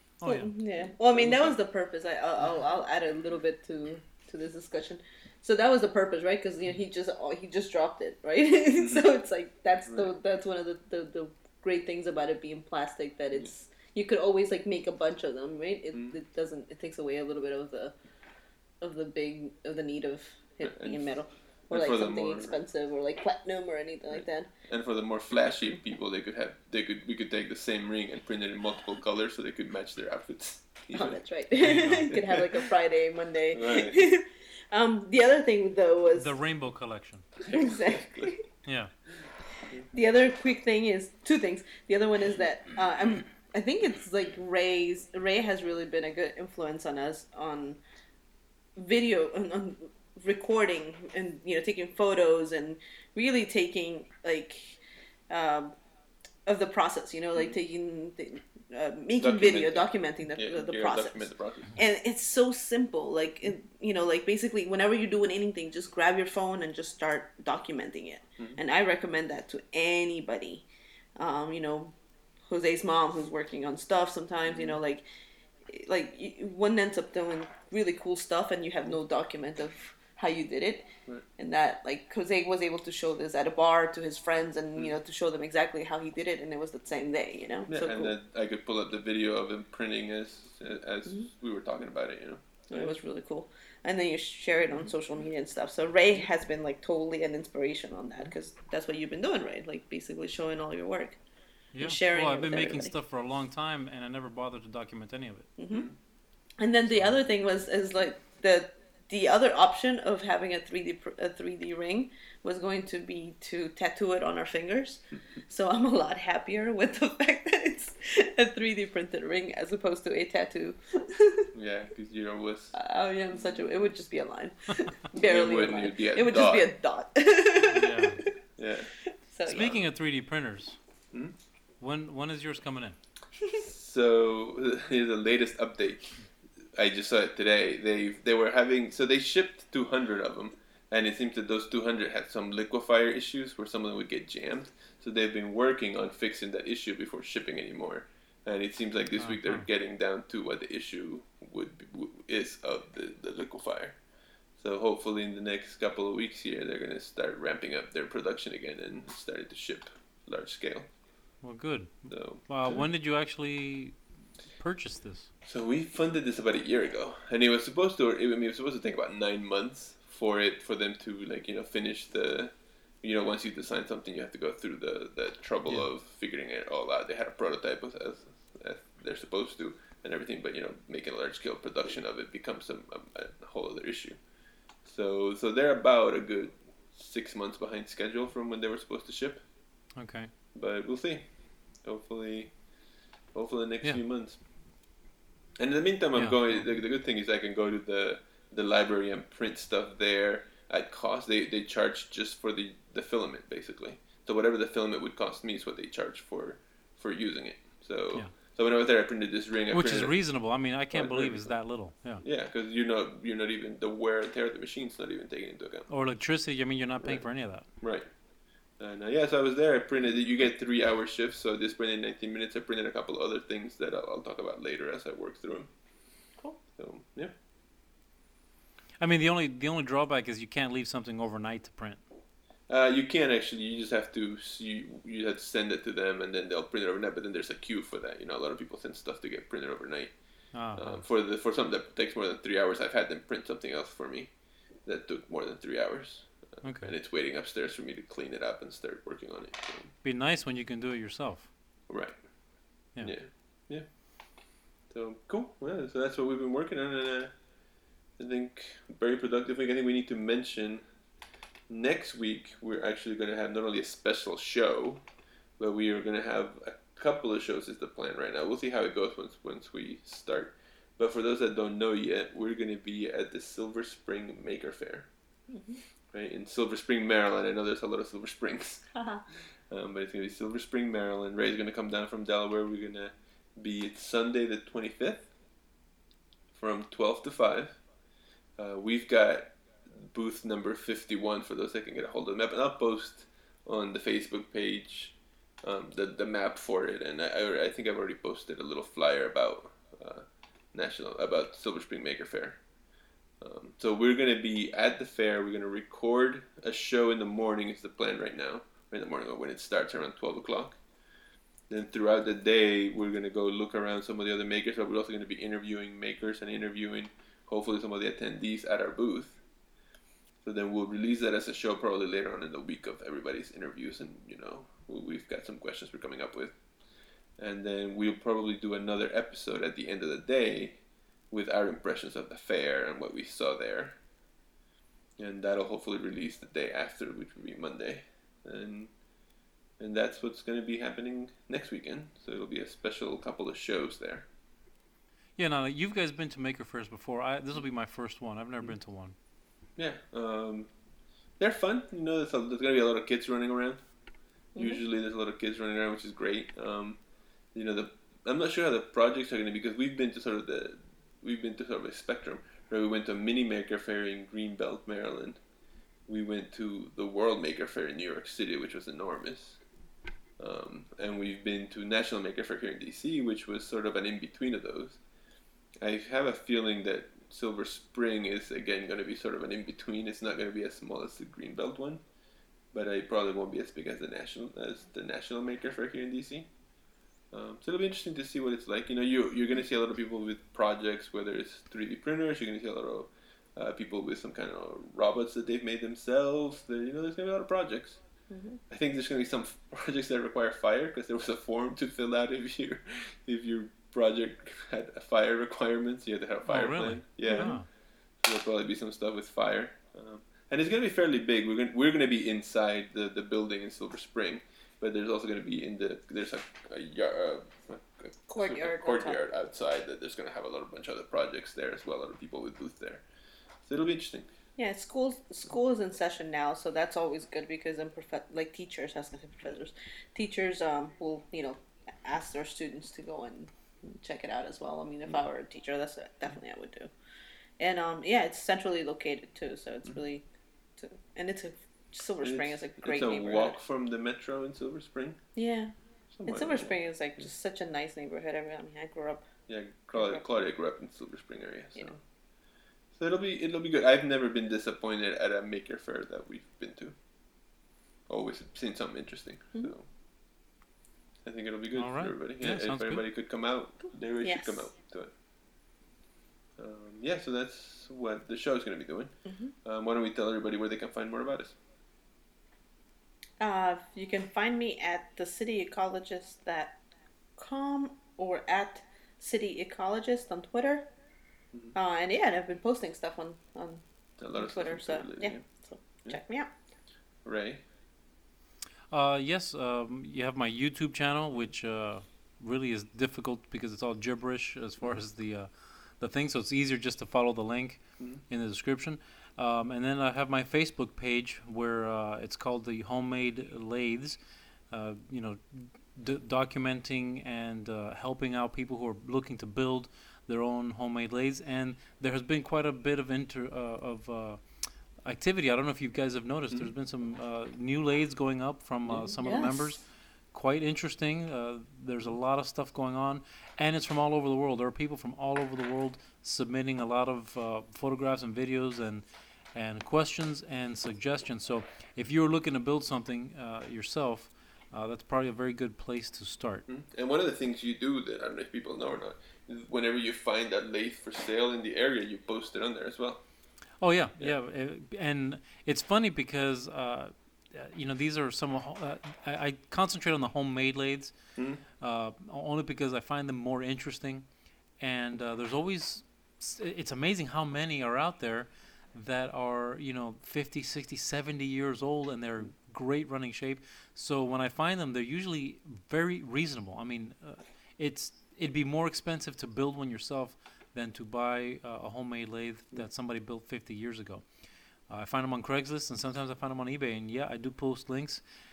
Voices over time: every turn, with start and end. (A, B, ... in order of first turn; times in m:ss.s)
0:00.2-0:00.5 A
0:00.2-0:17.9 B
0:00.8-0:01.5 C
0:08.8-0:09.1 C
0:18.8-0:24.5 B
0:20.6-0:21.1 C
0:21.7-0:22.6 C
0:24.1-0:31.2 C
0:30.9-0:36.3 B
0:31.6-0:32.1 A
0:32.1-0:32.4 C
0:33.5-0:34.0 C
0:36.2-0:37.3 A
0:37.4-0:38.3 C
0:37.5-0:38.4 B
0:38.6-0:38.9 A
0:39.9-0:47.8 B
0:48.7-0:54.8 B
0:55.3-0:55.7 B
0:56.4-1:10.6 B
0:59.2-1:01.8 C
1:11.2-1:15.0 B
1:14.5-1:14.8 C
1:15.6-1:28.1 B
1:27.7-1:32.9 C
1:32.7-1:41.2 B
1:41.7-1:45.5 A
1:41.8-1:42.9 B
1:45.6-1:45.9 B
1:45.7-1:46.0 C
1:46.6-2:01.5 B
1:46.9-1:47.2 A
2:01.5-2:02.8 C
2:02.7-2:08.3 B
2:05.2-2:06.7 C
2:07.7-2:08.2 A
2:08.6-2:09.8 C
2:09.0-2:09.8 B
2:09.4-2:10.8 A
2:11.8-2:13.0 A
2:13.5-2:34.0 C
2:29.2-2:29.6 A
2:34.6-2:40.9 C
2:41.4-2:44.0 A
2:42.1-2:42.9 C
2:44.5-2:45.3 A
2:45.4-3:04.2 C
3:04.8-3:09.4 C
3:10.0-3:10.3 A
3:10.5-3:12.6 C
3:13.3-3:14.4 C
3:15.6-3:30.2 C
3:16.1-3:16.7 A
3:29.7-3:32.2 A
3:30.9-3:31.5 C
3:32.2-3:35.9 C
3:35.9-3:37.6 A
3:37.0-3:38.1 C
3:38.8-3:45.7 C
3:46.8-3:47.3 C
3:49.0-3:52.0 A
3:52.7-4:00.2 C
4:00.5-4:01.0 A
4:00.7-4:04.3 C
4:04.8-4:09.9 C
4:06.6-4:06.9 A
4:10.0-4:11.5 A
4:11.9-4:12.2 C
4:13.0-4:13.9 C
4:14.9-4:17.4 C
4:18.2-4:20.8 C
4:21.7-4:25.0 C
4:25.6-4:35.1 C
4:35.5-4:35.8 B
4:36.1-4:45.3 C
4:39.0-4:39.2 B
4:46.5-4:47.8 C
4:48.6-5:02.6 C
5:03.4-5:10.8 C
5:11.7-5:19.4 C
5:20.4-5:26.6 C
5:27.4-5:34.0 C
5:35.2-5:38.9 C
5:39.8-5:44.3 C
5:45.4-5:49.1 A
5:49.8-5:50.7 C
5:51.4-5:53.8 C
5:54.5-5:54.8 B
5:54.5-5:57.0 C
5:57.5-6:05.4 C
6:06.1-6:09.6 C
6:10.4-6:15.0 C
6:15.8-6:22.0 C
6:22.7-6:26.5 C
6:27.3-6:38.0 C
6:38.3-6:38.6 B
6:38.7-6:47.6 C
6:46.5-6:47.6 A
6:47.2-6:47.6 B
6:48.2-7:03.0 C
6:58.3-6:59.2 B
7:03.6-7:04.3 C
7:04.6-7:16.9 B
7:17.6-7:23.6 B
7:22.2-7:25.2 C
7:25.4-7:25.7 B
7:26.1-7:27.3 C
7:26.2-7:29.3 B
7:29.5-7:32.0 C
7:29.9-7:30.2 B
7:32.9-7:37.0 C
7:38.1-7:39.9 C
7:41.2-7:45.1 C
7:41.7-7:43.0 A
7:44.2-7:44.7 B
7:46.6-7:51.6 C
7:49.2-7:49.5 B
7:53.4-7:56.8 B
7:57.4-8:00.9 B
8:01.7-8:03.8 B
8:04.2-8:05.4 C
8:04.3-8:06.5 B
8:07.2-8:07.6 C
8:08.9-8:24.2 A
8:24.7-8:34.4 A
8:35.0-8:56.6 A
8:39.2-8:39.8 B
8:56.7-9:03.2 C
9:03.8-9:11.1 A
9:11.4-9:11.6 C
9:11.8-9:14.2 A
9:14.8-9:34.2 A
9:34.9-9:38.2 A